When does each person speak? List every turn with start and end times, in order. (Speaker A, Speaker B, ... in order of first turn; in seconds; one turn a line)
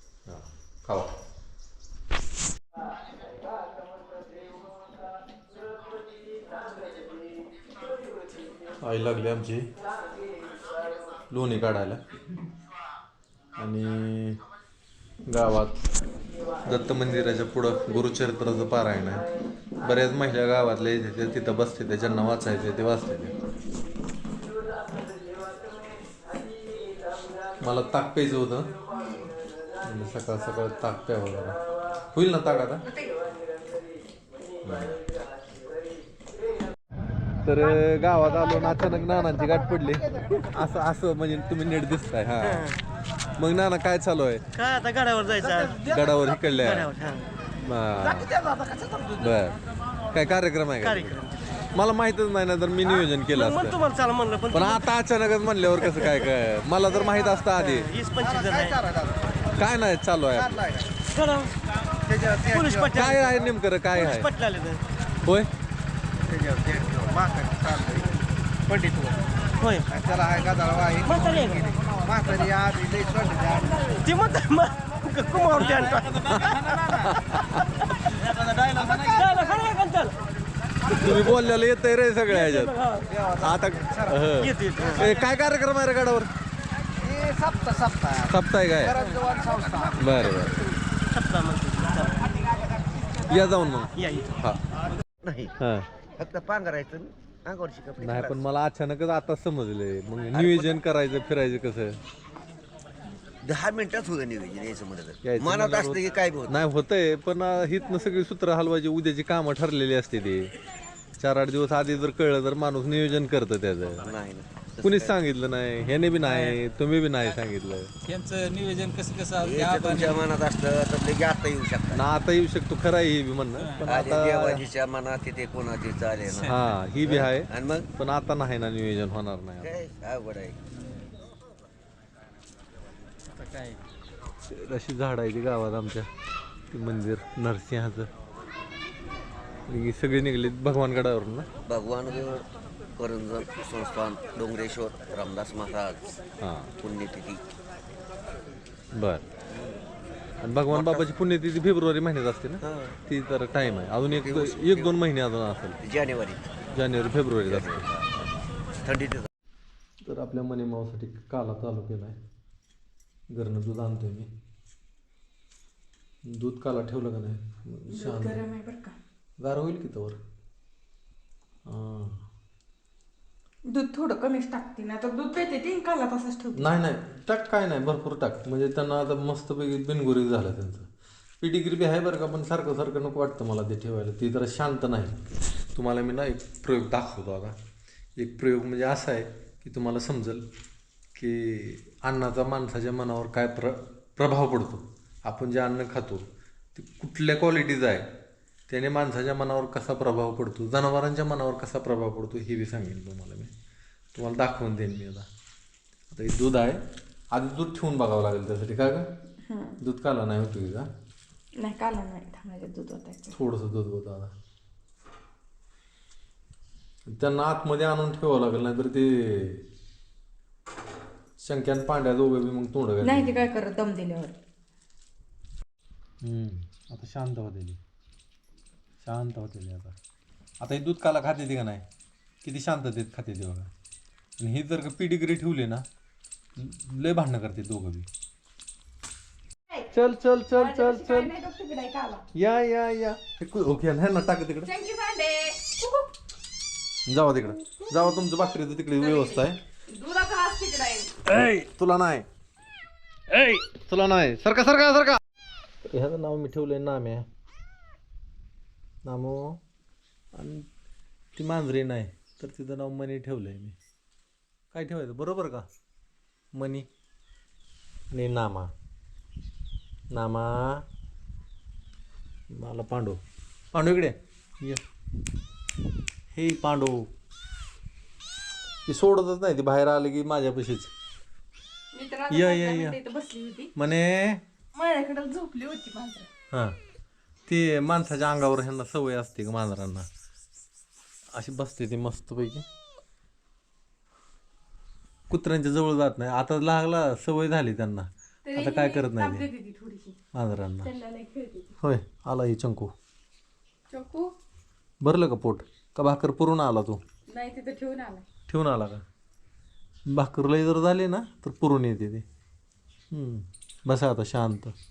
Speaker A: 0.3-1.1
Speaker A: 8.8-9.6
Speaker A: 11.3-12.0
Speaker A: 13.6-14.4
Speaker A: 15.3-15.9
Speaker A: 16.6-19.2
Speaker A: 19.8-23.3
Speaker A: 27.6-28.7
Speaker A: 29.8-31.6
Speaker A: 32.1-32.9
Speaker A: 34.6-35.0
Speaker A: 37.4-42.8
Speaker A: 43.4-44.4
Speaker B: 44.5-45.9
Speaker A: 45.8-46.9
Speaker B: 46.6-47.3
Speaker A: 47.6-48.3
Speaker A: 49.1-49.6
Speaker A: 50.1-51.2
Speaker B: 50.8-51.5
Speaker A: 51.7-53.8
Speaker B: 53.3-54.9
Speaker A: 54.5-57.9
Speaker B: 55.8-56.2
Speaker B: 57.4-59.1
Speaker A: 59.5-60.8
Speaker B: 61.1-64.8
Speaker A: 62.9-64.3
Speaker A: 65.2-65.5
Speaker B: 66.4-68.0
Speaker B: 68.7-76.8
Speaker A: 76.2-77.8
Speaker B: 78.2-80.2
Speaker A: 80.9-86.3
Speaker B: 84.4-85.1
Speaker B: 87.2-88.1
Speaker A: 88.1-89.1
Speaker B: 89.0-89.8
Speaker A: 90.0-90.6
Speaker B: 91.1-92.3
Speaker A: 93.2-94.6
Speaker B: 94.0-94.3
Speaker C: 95.2-95.5
Speaker A: 95.6-95.9
Speaker C: 96.2-98.4
Speaker A: 98.0-102.0
Speaker C: 100.3-100.8
Speaker C: 103.4-106.6
Speaker A: 105.2-110.5
Speaker A: 111.2-114.1
Speaker C: 114.0-115.2
Speaker A: 114.8-117.9
Speaker D: 116.2-116.6
Speaker D: 118.1-120.2
Speaker C: 119.4-122.0
Speaker A: 121.9-124.6
Speaker C: 123.8-127.9
Speaker D: 126.3-126.5
Speaker A: 126.5-129.8
Speaker C: 129.6-130.6
Speaker D: 133.4-133.8
Speaker A: 134.5-136.1
Speaker A: 136.7-138.1
Speaker A: 139.7-141.5
Speaker C: 141.7-146.1
Speaker A: 146.4-146.7
Speaker C: 146.8-147.4
Speaker A: 148.9-149.2
Speaker C: 149.5-149.8
Speaker A: 150.4-155.8
Speaker C: 150.7-151.0
Speaker C: 152.6-152.9
Speaker C: 154.1-154.9
Speaker C: 155.8-156.5
Speaker A: 156.7-157.9
Speaker C: 157.4-158.1
Speaker C: 158.8-159.3
Speaker A: 160.0-162.2
Speaker A: 163.3-164.3
Speaker A: 166.2-168.4
Speaker E: 167.9-168.9
Speaker A: 169.4-170.2
Speaker A: 171.7-172.2
Speaker E: 173.7-176.6
Speaker A: 176.6-180.9
Speaker A: 181.4-185.2
Speaker A: 185.7-187.5
Speaker A: 188.2-190.4
Speaker A: 191.2-198.1
Speaker A: 198.7-203.5
Speaker A: 204.1-205.2
Speaker A: 206.1-206.8
Speaker A: 207.3-209.0
Speaker E: 209.4-209.8
Speaker A: 209.8-210.9
Speaker E: 211.6-213.3
Speaker A: 213.3-214.3
Speaker A: 217.1-219.6
Speaker A: 221.4-223.4
Speaker E: 223.0-224.3
Speaker A: 226.2-227.8
Speaker A: 229.0-229.9
Speaker A: 230.6-231.8
Speaker A: 232.4-233.7
Speaker A: 234.4-235.8
Speaker A: 236.6-238.1
Speaker A: 239.9-241.3
Speaker E: 240.5-242.2
Speaker A: 242.3-244.7
Speaker E: 244.6-246.1
Speaker A: 247.1-249.6
Speaker E: 249.0-251.2
Speaker A: 251.3-252.2
Speaker A: 253.3-255.2
Speaker A: 255.8-257.2
Speaker A: 259.0-259.6
Speaker A: 260.3-260.6
Speaker A: 261.4-263.8
Speaker A: 264.7-265.7
Speaker A: 266.5-266.9
Speaker A: 268.1-268.7
Speaker A: 270.1-270.8
Speaker A: 272.5-273.2
Speaker A: 273.7-274.8
Speaker A: 276.3-277.1
Speaker A: 278.9-280.9
Speaker E: 281.9-283.7
Speaker A: 282.3-283.0
Speaker A: 283.8-284.4
Speaker E: 284.7-286.3
Speaker A: 287.5-290.1
Speaker A: 291.3-292.6
Speaker A: 295.3-299.5
Speaker E: 298.4-300.2
Speaker A: 300.3-300.9
Speaker E: 300.8-301.7
Speaker A: 301.8-302.9
Speaker E: 303.9-304.3
Speaker A: 305.0-307.0
Speaker E: 307.3-308.2
Speaker A: 308.5-309.0
Speaker A: 310.1-312.2
Speaker A: 313.1-314.7